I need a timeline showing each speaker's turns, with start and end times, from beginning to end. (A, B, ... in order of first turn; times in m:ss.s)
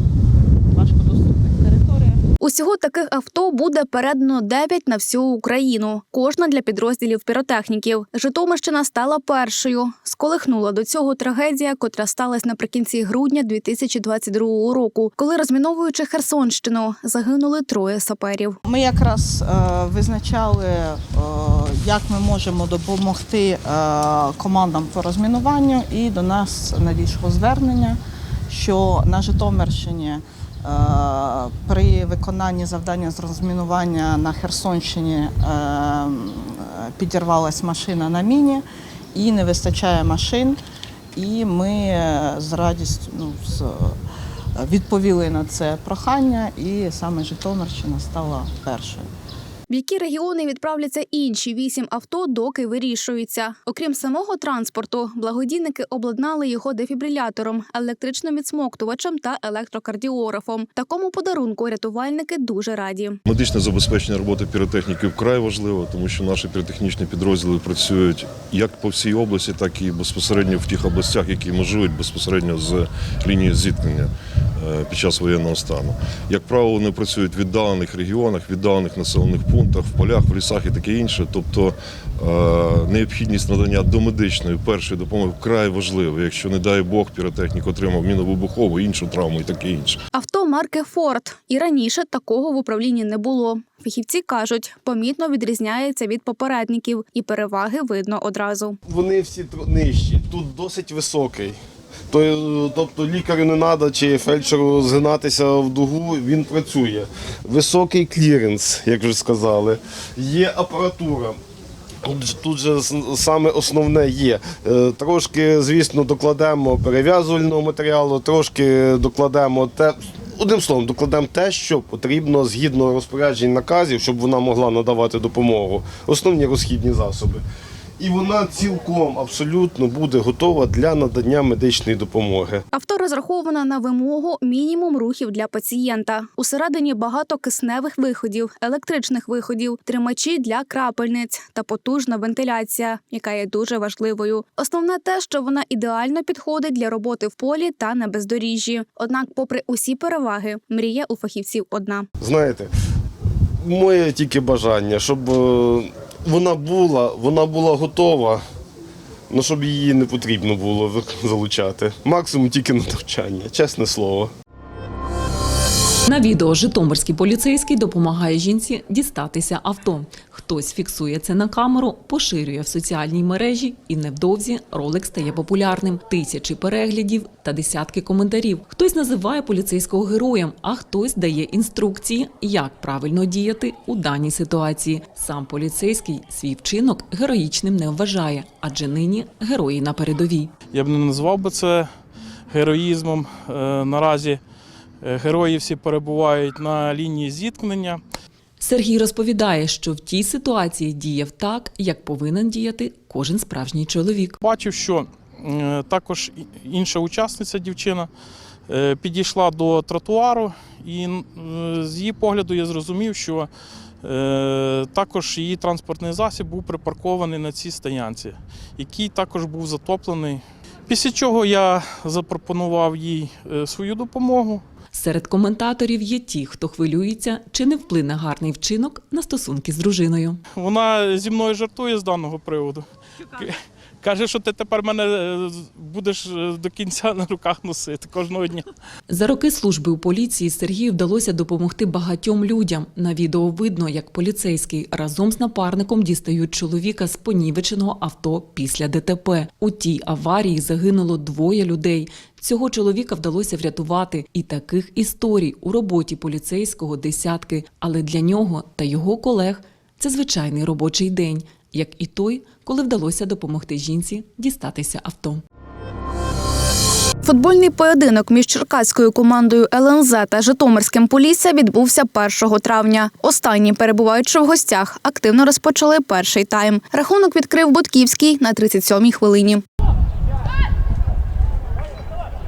0:00.7-0:02.2 A
0:02.4-0:18.6 B
0:18.6-0:28.0 A
0:28.5-0:40.6 A
0:41.2-0:44.0 A
0:44.6-0:49.1 A
0:49.7-1:03.2 B
1:03.2-1:30.0 C
1:30.1-1:38.8 B
1:38.8-1:41.6 D
1:42.1-1:51.4 D
1:52.0-2:07.4 D
2:08.0-2:12.6 D
2:12.7-2:32.1 B
2:32.2-2:32.7 D
2:33.6-2:38.4 D
2:39.3-2:44.3 D
2:46.1-3:10.5 E
3:10.7-3:11.9 F
3:12.5-3:14.4 F
3:15.0-3:18.0 F
3:18.6-3:24.4 E
3:24.4-3:28.1 F
3:28.7-3:33.5 F
3:34.0-3:44.6 F
3:44.9-3:50.4 E
3:50.6-3:52.8 F
3:53.4-3:58.6 F
3:59.1-4:25.4 E
4:27.2-4:39.6 B